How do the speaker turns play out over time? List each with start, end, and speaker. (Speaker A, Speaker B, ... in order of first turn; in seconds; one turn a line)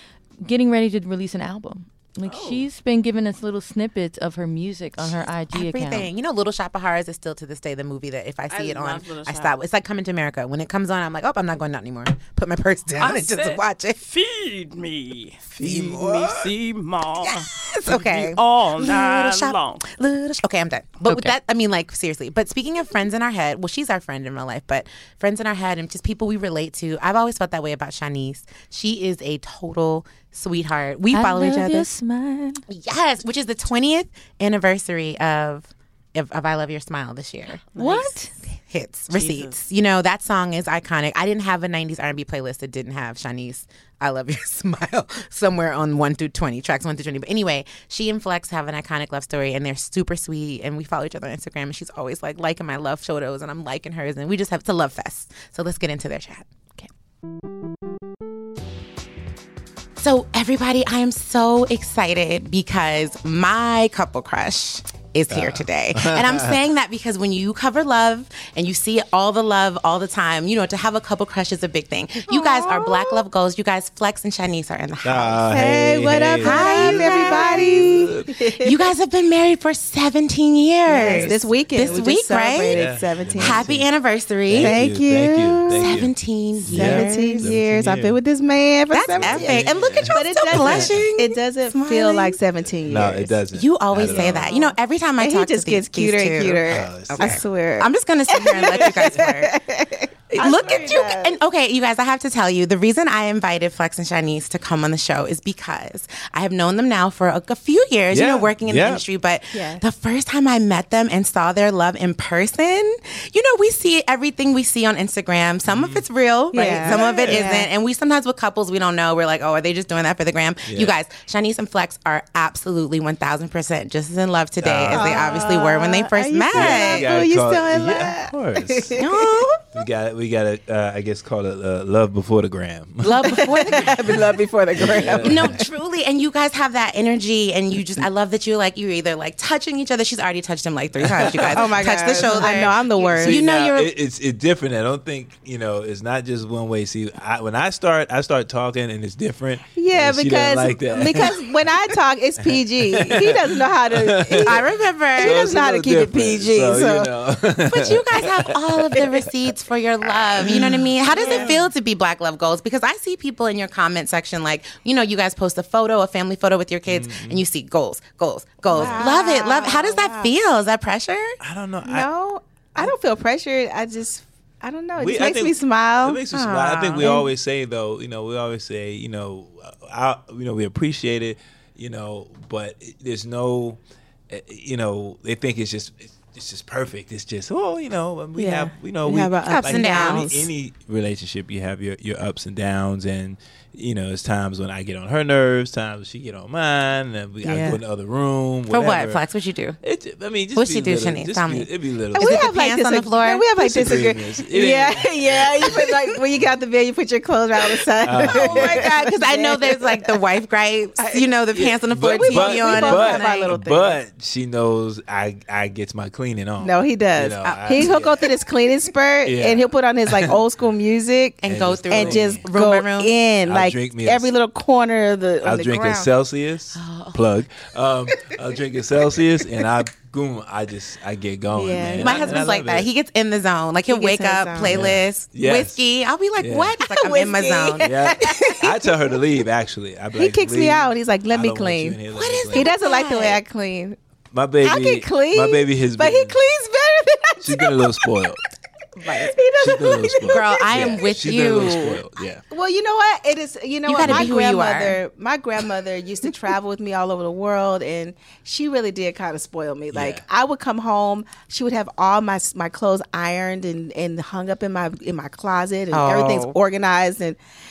Speaker A: 0.4-6.1
Speaker B: 2.2-2.7
Speaker B: 5.5-14.0
Speaker C: 8.5-9.6
Speaker C: 13.0-19.9
Speaker D: 15.6-16.5
Speaker B: 17.2-31.9
Speaker A: 21.1-21.3
Speaker A: 31.1-32.6
Speaker B: 32.7-56.5
Speaker A: 37.8-38.3
Speaker B: 60.0-75.4
Speaker D: 65.3-66.6
Speaker E: 72.3-72.9
Speaker D: 75.0-78.4
Speaker E: 75.5-78.9
Speaker B: 76.4-77.9
Speaker B: 78.6-82.8
Speaker E: 80.9-83.7
Speaker D: 80.9-83.9
Speaker B: 83.4-84.8
Speaker D: 84.5-88.2
Speaker E: 84.5-86.0
Speaker B: 85.7-87.5
Speaker E: 86.7-93.4
Speaker B: 88.9-92.4
Speaker D: 89.0-91.1
Speaker D: 92.8-94.6
Speaker B: 93.5-99.5
Speaker E: 94.0-101.4
Speaker D: 96.7-97.4
Speaker D: 98.5-99.3
Speaker B: 100.3-127.1
Speaker D: 100.4-101.0
Speaker D: 108.1-109.0
Speaker E: 109.5-109.8
Speaker D: 115.7-116.0
Speaker E: 116.5-117.7
Speaker D: 116.6-117.6
Speaker D: 120.7-121.0
Speaker D: 124.6-125.7
Speaker E: 124.9-129.6
Speaker D: 126.5-129.1
Speaker B: 129.0-129.5
Speaker D: 129.7-135.7
Speaker B: 133.0-134.3
Speaker E: 133.2-135.6
Speaker B: 134.8-143.9
Speaker D: 141.0-159.3
Speaker E: 141.3-143.5
Speaker E: 149.8-157.1
Speaker B: 154.4-155.5
Speaker B: 157.7-171.4
Speaker D: 160.0-161.7
Speaker E: 160.4-161.6
Speaker D: 166.9-167.4
Speaker E: 168.7-170.3
Speaker D: 168.7-169.2
Speaker D: 171.4-172.1
Speaker E: 171.8-177.3
Speaker D: 174.9-199.2
Speaker B: 176.3-177.2
Speaker E: 188.4-190.5
Speaker B: 189.4-190.3
Speaker E: 197.4-197.8
Speaker B: 198.7-199.8
Speaker D: 199.8-202.5
Speaker B: 200.6-203.9
Speaker E: 202.2-210.2
Speaker D: 203.5-206.5
Speaker D: 207.8-209.0
Speaker B: 208.2-213.6
Speaker D: 211.5-218.4
Speaker E: 212.0-213.9
Speaker E: 216.6-226.1
Speaker B: 217.4-217.9
Speaker D: 219.2-220.4
Speaker B: 221.4-223.2
Speaker D: 221.4-222.5
Speaker D: 223.4-224.3
Speaker D: 225.4-232.9
Speaker B: 226.8-227.2
Speaker E: 231.5-232.6
Speaker B: 232.0-237.9
Speaker E: 233.9-234.9
Speaker D: 234.6-235.8
Speaker D: 236.4-236.8
Speaker E: 236.8-239.2
Speaker D: 237.8-242.8
Speaker E: 240.2-244.0
Speaker B: 242.1-243.4
Speaker D: 244.3-246.4
Speaker E: 244.6-248.1
Speaker D: 247.4-248.4
Speaker E: 249.0-251.0
Speaker D: 249.6-252.4
Speaker B: 250.2-252.0
Speaker E: 252.5-267.4
Speaker B: 253.8-255.0
Speaker D: 254.0-254.4
Speaker D: 259.9-260.2
Speaker B: 265.9-266.6